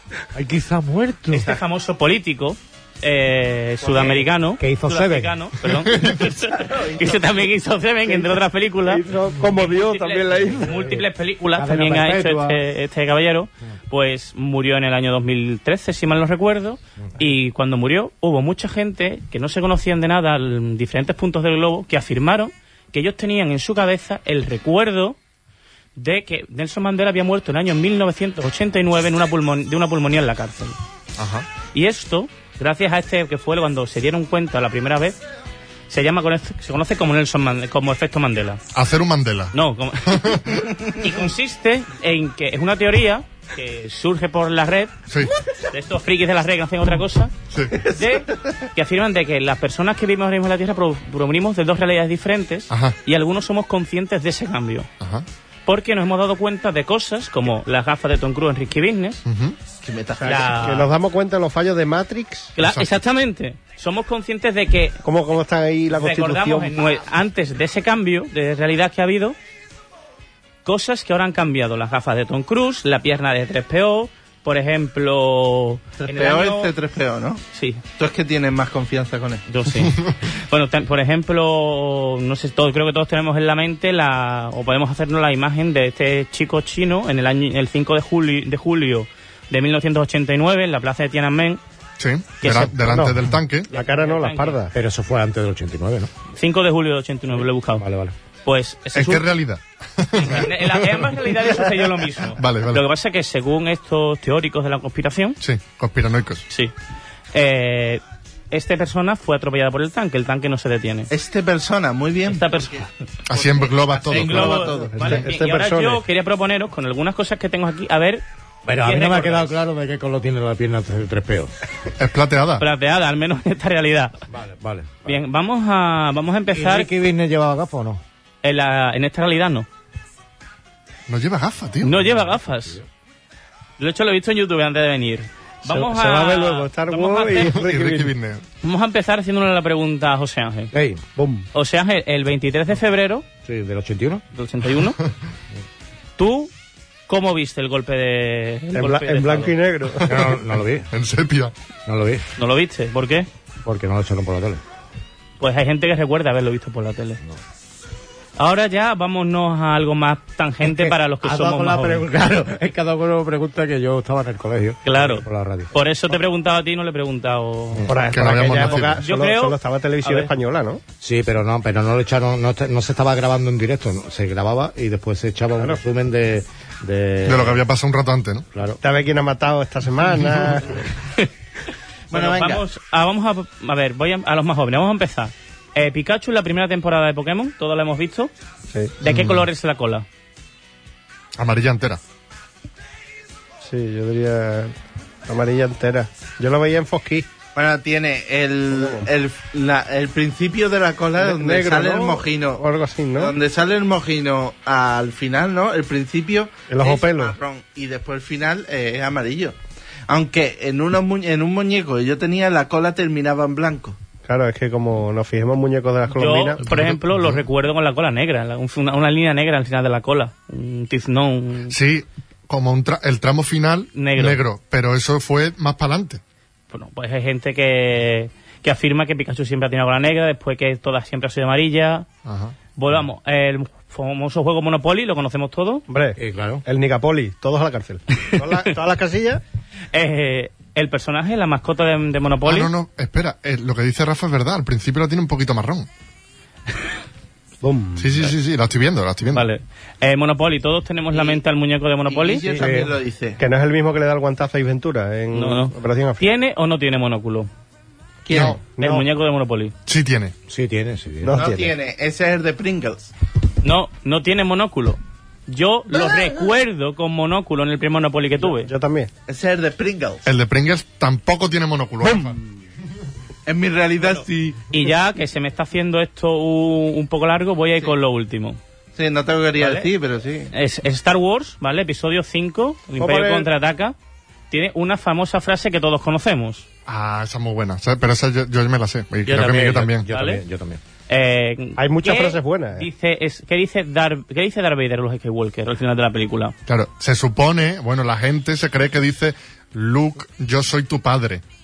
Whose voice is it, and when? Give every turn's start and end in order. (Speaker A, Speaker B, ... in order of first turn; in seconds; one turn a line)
Speaker A: 0.3-1.5
Speaker B: 1.3-25.2
Speaker A: 4.6-5.4
Speaker C: 6.2-7.4
Speaker D: 8.1-11.0
Speaker A: 11.6-12.6
Speaker B: 26.0-30.8
Speaker E: 31.2-31.5
Speaker B: 31.7-35.2
Speaker B: 35.9-38.6
Speaker E: 38.7-39.5
Speaker B: 39.5-45.0
Speaker E: 40.0-40.5
Speaker B: 45.7-47.3
Speaker E: 47.5-47.8
Speaker B: 47.8-54.9
Speaker E: 52.7-53.0
Speaker E: 55.0-55.3
Speaker B: 55.7-59.2
Speaker E: 59.3-59.6
Speaker C: 59.8-60.6
Speaker D: 60.2-62.5
Speaker B: 60.2-60.9
Speaker B: 62.6-65.0
Speaker E: 62.6-62.9
Speaker D: 65.0-66.8
Speaker B: 65.9-69.4
Speaker B: 70.7-76.7
Speaker C: 76.0-77.4
Speaker B: 77.5-77.8
Speaker C: 78.0-79.5
Speaker B: 79.5-91.6
Speaker E: 79.8-80.1
Speaker E: 92.0-93.7
Speaker B: 92.4-93.1
Speaker D: 92.8-94.8
Speaker B: 93.7-94.6
Speaker A: 94.7-96.1
Speaker B: 96.3-97.8
Speaker A: 97.8-98.2
Speaker B: 98.4-99.2
Speaker E: 98.9-101.1
Speaker B: 100.2-105.4
Speaker E: 102.4-102.8
Speaker E: 105.4-106.5
Speaker B: 107.3-111.1
Speaker C: 111.1-115.2
Speaker B: 112.3-112.9
Speaker E: 113.3-114.7
Speaker B: 114.1-118.2
Speaker D: 114.7-116.0
Speaker A: 118.7-121.5
Speaker B: 118.8-119.5
Speaker E: 122.0-122.7
Speaker B: 122.6-124.2
Speaker A: 124.3-125.2
Speaker B: 125.0-126.9
Speaker A: 126.5-128.0
Speaker B: 128.4-129.7
Speaker E: 131.1-132.0
Speaker B: 131.8-132.8
Speaker A: 132.0-132.8
Speaker B: 133.8-137.6
Speaker D: 135.7-138.1
Speaker E: 137.4-138.4
Speaker B: 138.6-140.7
Speaker A: 140.7-141.0
Speaker D: 141.2-141.5
Speaker B: 141.5-143.2
Speaker A: 143.4-144.2
Speaker B: 144.3-145.0
Speaker B: 146.2-146.5
Speaker B: 147.1-149.5
Speaker D: 148.7-150.1
Speaker E: 150.1-150.4
Speaker A: 150.1-150.9
Speaker E: 150.9-151.5
Speaker A: 151.9-152.2
Speaker B: 152.4-153.3
Speaker A: 153.7-154.6
Speaker B: 155.4-157.2
Speaker B: 158.4-162.1
Speaker A: 160.8-165.7
Speaker B: 164.8-167.9
Speaker D: 167.9-170.8
Speaker E: 168.1-169.0
Speaker B: 168.5-170.3
Speaker A: 171.0-177.6
Speaker E: 177.2-178.5
Speaker A: 178.5-178.8
Speaker D: 178.8-180.9
Speaker B: 182.1-188.3
Speaker C: 182.1-182.6
Speaker B: 189.0-190.1
Speaker E: 189.0-189.5
Speaker E: 191.4-192.0
Speaker D: 193.6-194.7
Speaker D: 195.3-197.3
Speaker C: 197.6-202.6
Speaker D: 198.7-199.1
Speaker D: 201.2-203.3
Speaker C: 203.2-209.6
Speaker D: 206.7-207.3
Speaker C: 210.1-214.0
Speaker D: 214.3-216.7
Speaker B: 216.2-221.8
Speaker E: 216.7-217.4
Speaker E: 221.7-226.2
Speaker B: 223.9-224.4
Speaker B: 226.7-232.1
Speaker E: 232.2-232.6
Speaker B: 232.8-235.8
Speaker D: 235.9-239.4
Speaker A: 236.2-236.7
Speaker B: 239.9-242.7
Speaker E: 242.4-245.9
Speaker D: 247.6-248.3
Speaker E: 248.0-249.5
Speaker B: 249.3-252.4
Speaker C: 251.1-251.4
Speaker C: 252.1-253.4
Speaker A: 252.5-252.9
Speaker D: 253.4-256.3
Speaker B: 255.3-257.5
Speaker C: 258.3-258.6
Speaker D: 258.3-259.1
Speaker E: 258.3-258.6
Speaker B: 258.7-259.7
Speaker E: 259.9-260.4
Speaker A: 260.5-261.3
Speaker D: 261.2-261.7
Speaker C: 261.3-263.1
Speaker B: 263.6-268.7
Speaker D: 268.4-269.1
Speaker C: 269.3-270.2
Speaker E: 270.3-272.4
Speaker C: 273.5-274.6
Speaker B: 274.0-278.6
Speaker C: 278.9-280.5
Speaker B: 279.6-279.9
Speaker B: 280.5-283.9
Speaker D: 283.0-283.5
Speaker B: 284.5-286.7
Speaker E: 286.9-290.1
Speaker A: 289.3-290.8
Speaker B: 290.1-290.4
Speaker B: 291.1-296.6
Speaker D: 291.8-292.9
Speaker E: 296.7-301.4